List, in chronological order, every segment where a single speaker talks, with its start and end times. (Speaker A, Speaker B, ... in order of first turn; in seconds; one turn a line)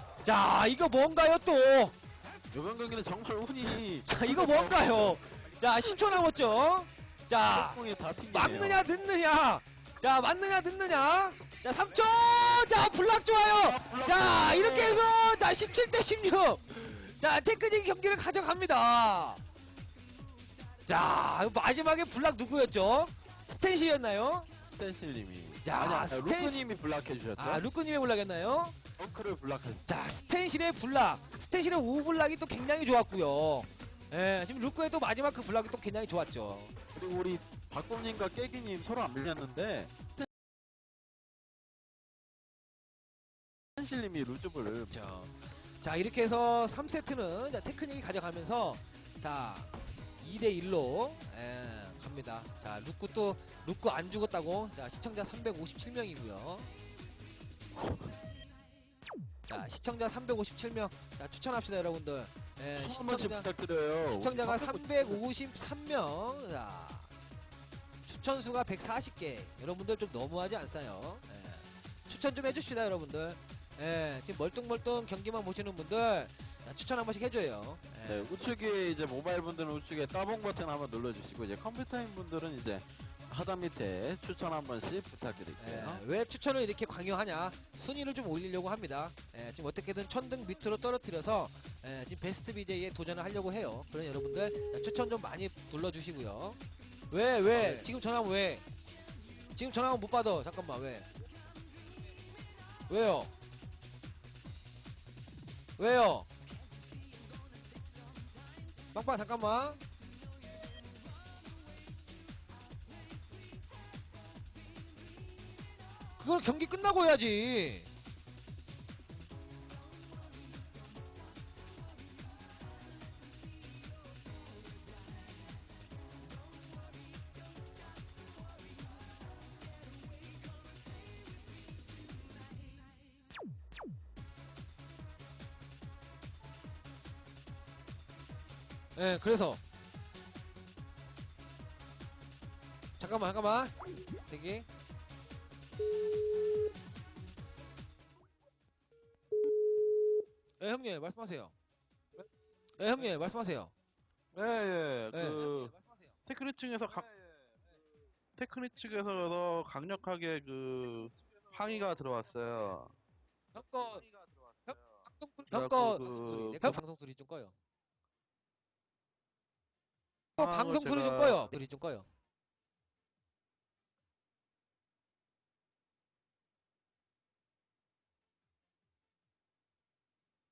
Speaker A: 0.2-1.9
Speaker B: 2.5-5.2
Speaker A: 4.0-7.8
Speaker B: 7.4-8.9
Speaker A: 8.3-19.4
Speaker B: 13.5-15.1
Speaker A: 20.9-24.5
Speaker B: 24.6-27.6
Speaker A: 25.6-26.6
Speaker A: 27.4-28.8
Speaker B: 29.0-29.9
Speaker A: 29.9-36.8
Speaker B: 37.0-40.3
Speaker B: 43.8-44.9
Speaker A: 44.9-56.7
Speaker B: 57.8-58.1
Speaker A: 59.5-63.5
Speaker B: 62.8-65.2
Speaker A: 64.1-67.1
Speaker A: 68.1-78.3
Speaker B: 78.1-86.0
Speaker A: 85.6-96.6
Speaker A: 97.1-98.6
Speaker B: 97.5-97.9
Speaker A: 99.5-101.1
Speaker A: 102.9-103.3
Speaker A: 105.8-106.3
Speaker A: 108.9-109.8
Speaker A: 116.2-117.9
Speaker A: 139.0-139.6
Speaker A: 143.0-143.7
Speaker A: 144.3-144.7
Speaker A: 150.6-151.5
Speaker A: 152.8-153.7
Speaker C: 154.3-155.8
Speaker A: 155.1-156.2
Speaker C: 156.3-157.1
Speaker C: 158.4-162.9
Speaker A: 163.6-164.0
Speaker C: 164.1-164.7
Speaker A: 164.7-167.6
Speaker C: 165.5-166.8
Speaker C: 170.4-171.5
Speaker A: 170.4-172.1